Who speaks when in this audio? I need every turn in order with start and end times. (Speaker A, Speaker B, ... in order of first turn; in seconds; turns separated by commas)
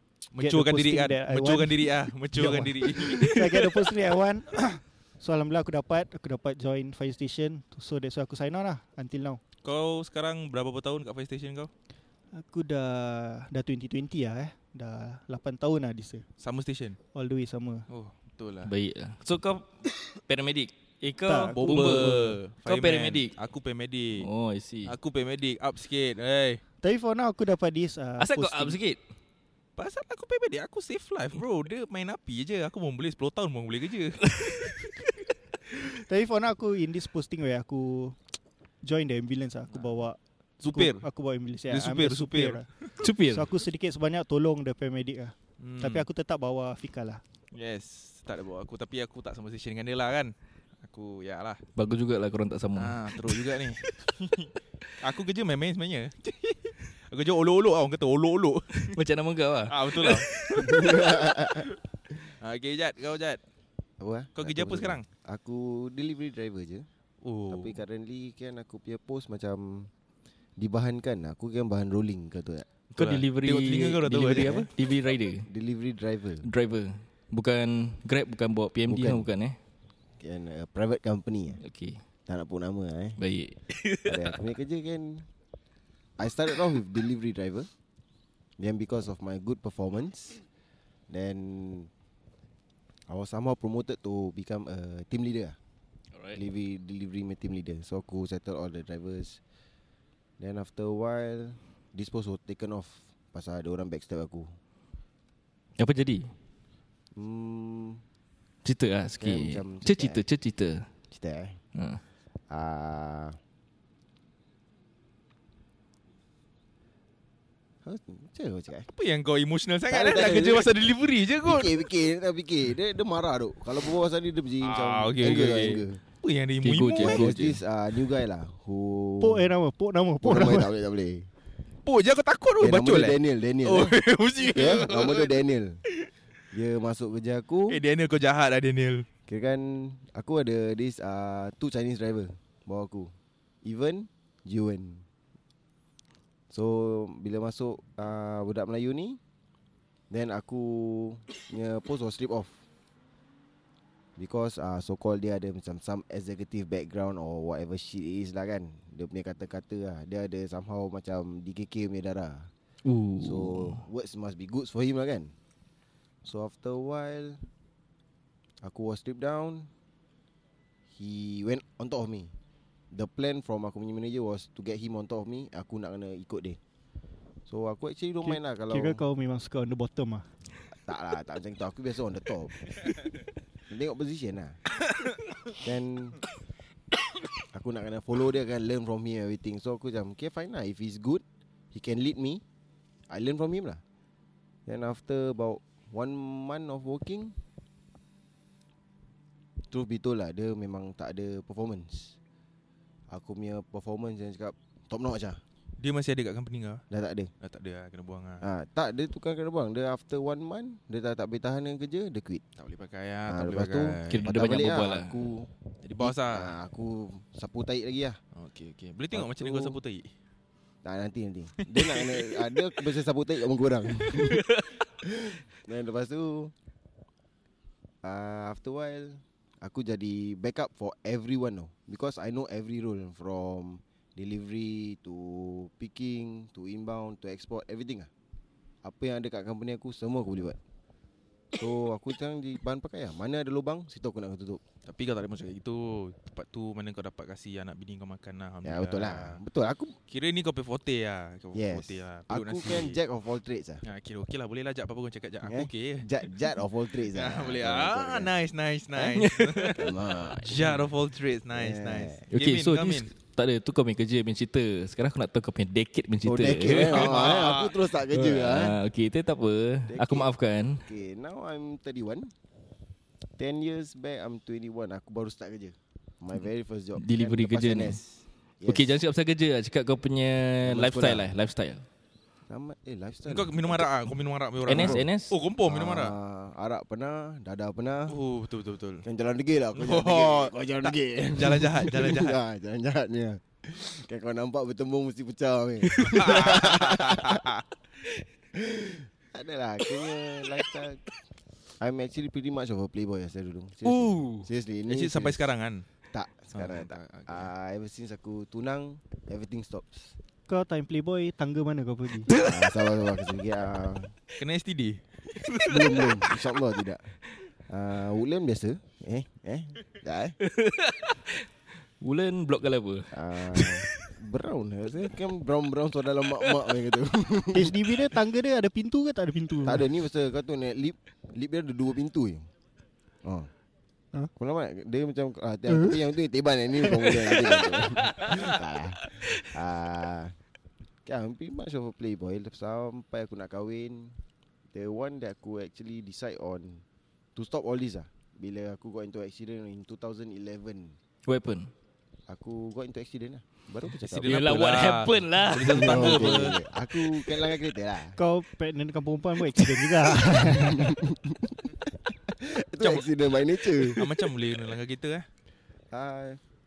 Speaker A: 0.3-4.0, Speaker B: 0.4-9.4, Speaker A: 9.6-11.7, Speaker B: 12.3-16.2, Speaker A: 16.4-17.0, Speaker B: 17.1-17.9, Speaker A: 17.9-18.7, Speaker C: 18.6-23.3, Speaker B: 21.2-22.4, Speaker A: 21.6-24.3, Speaker C: 24.2-24.9, Speaker A: 24.9-26.6, Speaker B: 26.8-28.8, Speaker C: 28.2-29.0, Speaker A: 29.8-34.2, Speaker C: 34.3-34.9, Speaker B: 35.6-38.2, Speaker B: 38.8-40.2, Speaker A: 40.6-41.0, Speaker B: 40.7-42.7, Speaker A: 41.7-42.9, Speaker C: 43.0-43.5, Speaker B: 43.2-47.2, Speaker A: 45.6-46.0, Speaker A: 47.5-51.6, Speaker C: 51.8-53.4, Speaker A: 52.8-54.5, Speaker A: 55.0-59.0, Speaker C: 58.8-60.8, Speaker A: 59.7-60.7, Speaker D: 60.6-61.7, Speaker A: 62.4-63.4, Speaker D: 64.0-66.8, Speaker A: 64.3-65.0, Speaker A: 67.2-67.8, Speaker D: 67.5-69.9, Speaker D: 70.6-72.7, Speaker A: 72.9-74.7, Speaker C: 73.0-75.5, Speaker D: 74.4-74.7, Speaker D: 75.4-76.5, Speaker C: 76.4-79.6, Speaker D: 78.9-79.3, Speaker D: 80.2-81.6, Speaker C: 81.6-82.0, Speaker D: 82.3-83.2, Speaker C: 83.2-84.3, Speaker D: 84.1-85.3, Speaker D: 86.2-87.7, Speaker D: 88.6-90.4, Speaker D: 91.1-91.9, Speaker D: 93.1-95.6, Speaker C: 96.1-96.4, Speaker D: 96.3-99.4, Speaker D: 100.4-104.5, Speaker C: 105.8-106.3, Speaker D: 107.1-108.0, Speaker C: 108.6-110.9, Speaker D: 109.2-110.2, Speaker D: 111.1-111.6, Speaker C: 111.7-112.0, Speaker D: 112.5-113.4, Speaker D: 117.8-118.8, Speaker A: 118.9-121.7, Speaker D: 119.9-120.7, Speaker D: 121.4-126.0, Speaker A: 124.6-127.4, Speaker C: 126.6-127.6, Speaker D: 127.0-129.5, Speaker B: 129.2-130.7, Speaker D: 130.2-131.3, Speaker A: 131.8-135.4, Speaker D: 132.6-135.8, Speaker D: 136.5-137.8, Speaker A: 137.7-139.1, Speaker D: 139.3-145.1, Speaker D: 146.5-149.2, Speaker D: 150.1-152.6, Speaker D: 154.2-162.5, Speaker C: 162.8-163.8, Speaker D: 163.2-165.3, Speaker D: 166.2-167.4, Speaker D: 168.6-169.7, Speaker D: 170.9-172.3, Speaker D: 172.9-176.6, Speaker D: 177.4-179.0, Speaker B: 178.2-180.3, Speaker D: 180.7-182.7, Speaker D: 183.7-184.6, Speaker D: 185.6-186.2, Speaker D: 187.5-192.4, Speaker D: 193.1-193.8, Speaker D: 194.7-197.3, Speaker D: 199.7-202.2, Speaker D: 203.1-205.4, Speaker A: 205.8-206.8, Speaker D: 206.9-207.3, Speaker A: 207.4-208.4, Speaker D: 208.4-212.4, Speaker A: 212.6-214.3, Speaker D: 213.3-218.2, Speaker C: 214.1-215.2, Speaker A: 215.8-216.5, Speaker A: 218.3-220.1, Speaker D: 219.1-219.8, Speaker D: 220.8-226.5, Speaker A: 221.6-222.3, Speaker D: 228.0-238.1, Speaker D: 238.8-240.6, Speaker D: 241.5-244.6, Speaker A: 244.8-249.4, Speaker D: 248.6-249.9, Speaker A: 250.1-253.0, Speaker D: 251.5-253.8, Speaker A: 253.8-256.1, Speaker D: 255.4-258.3, Speaker A: 257.1-263.1, Speaker C: 258.9-259.8, Speaker D: 259.8-260.9, Speaker D: 261.5-262.2, Speaker C: 262.3-267.2, Speaker D: 266.2-268.8, Speaker A: 266.7-267.8, Speaker C: 268.1-270.8, Speaker D: 269.9-270.3, Speaker D: 270.8-272.3, Speaker D: 273.4-279.0, Speaker C: 277.0-278.0, Speaker C: 278.6-281.8, Speaker D: 280.6-281.3, Speaker D: 282.5-283.9, Speaker A: 283.3-286.1, Speaker C: 284.7-285.3, Speaker D: 284.7-285.1, Speaker D: 285.7-288.2, Speaker A: 288.1-289.0, Speaker D: 289.0-297.4, Speaker A: 289.7-292.4, Speaker A: 296.0-297.6, Speaker D: 298.5-301.0, Speaker D: 301.8-305.5, Speaker C: 303.8-304.5, Speaker A: 304.9-305.8, Speaker D: 306.1-310.1, Speaker A: 306.5-307.5, Speaker B: 310.5-312.3, Speaker D: 312.3-314.1, Speaker A: 314.4-315.0, Speaker C: 315.4-316.1, Speaker D: 315.6-317.1, Speaker D: 317.7-320.4, Speaker C: 320.4-321.5, Speaker C: 322.0-324.1, Speaker D: 323.1-328.0, Speaker B: 327.5-329.8, Speaker D: 329.6-332.5, Speaker D: 333.2-333.5, Speaker D: 334.4-340.4, Speaker B: 335.7-336.0, Speaker C: 337.2-339.4, Speaker D: 341.0-344.2, Speaker D: 344.7-346.8, Speaker D: 347.3-351.0, Speaker C: 351.2-351.7, Speaker D: 352.3-354.4, Speaker A: 353.8-356.6, Speaker C: 354.2-356.6, Speaker D: 355.6-358.2, Speaker B: 358.1-360.9, Speaker D: 360.5-364.0, Speaker A: 362.8-363.1, Speaker A: 363.6-365.2, Speaker D: 365.9-366.4